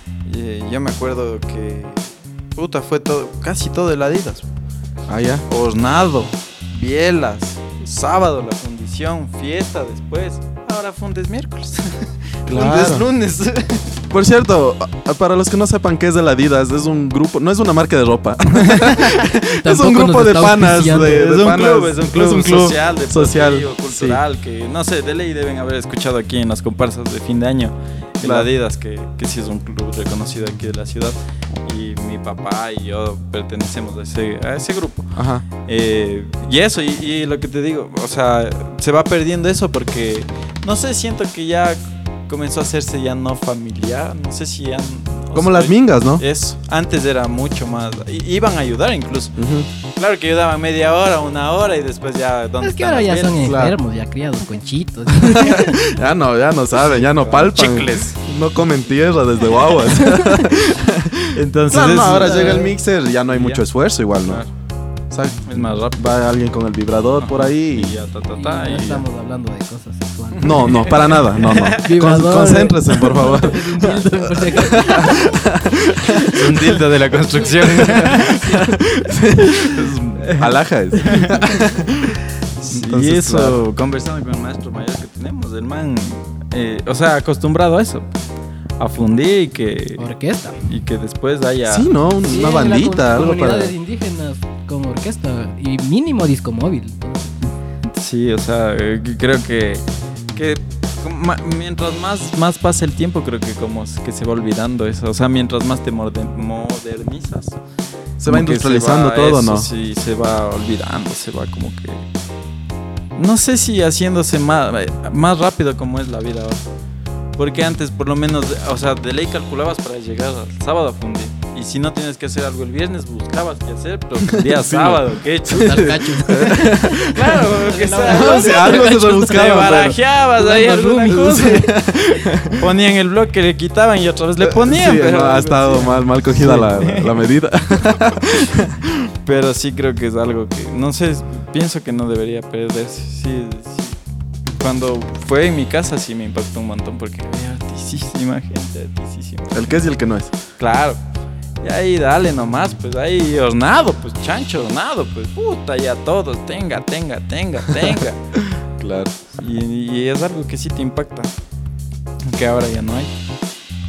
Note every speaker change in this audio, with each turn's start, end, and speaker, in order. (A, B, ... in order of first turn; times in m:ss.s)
0:00.2-0:04.4 A
0:05.1-0:05.4 B
0:05.5-0:14.0 A
0:12.5-0:13.1 B
0:14.1-0:24.2 B
0:18.5-0:19.2 A
0:19.5-0:21.2 C
0:20.9-0:35.1 A
0:28.2-0:28.5 B
0:35.1-0:35.4 B
0:35.6-0:49.4 A
0:45.3-0:46.2 B
0:49.4-0:49.7 B
0:49.9-0:53.5 A
0:52.6-0:55.8 C
0:53.4-0:53.7 B
0:55.2-1:04.4 B
0:56.9-0:58.2 A
0:59.9-1:00.6 C
1:01.3-1:02.7 A
1:02.1-1:02.7 C
1:03.3-1:03.6 A
1:04.2-1:04.5 A
1:05.1-1:08.0 B
1:05.4-1:06.1 A
1:07.2-1:09.0 A
1:08.3-1:15.3 C
1:10.3-1:11.9 A
1:10.4-1:16.8 B
1:16.2-1:18.6 A
1:17.5-1:22.2 B
1:18.0-1:18.8 C
1:20.2-1:20.5 A
1:21.0-1:21.6 A
1:21.0-1:21.7 C
1:22.6-1:28.2 A
1:22.7-1:23.6 B
1:28.8-1:30.1 A
1:30.0-1:30.6 C
1:30.6-1:31.9 A
1:31.6-1:33.7 B
1:32.2-1:37.3 C
1:37.8-1:47.6 A
1:48.2-1:49.7 B
1:48.3-1:52.0 A
1:53.2-1:56.6 A
1:57.4-2:06.5 A
2:04.2-2:10.0 B
2:05.5-2:09.7 C
2:07.0-2:17.3 A
2:10.4-2:11.7 C
2:11.1-2:12.7 B
2:14.4-2:19.1 B
2:19.2-2:29.9 A
2:29.5-2:30.3 B
2:30.6-2:31.0 A
2:31.6-2:38.2 A
2:38.5-2:39.1 B
2:39.3-2:41.3 A
2:42.3-2:43.1 A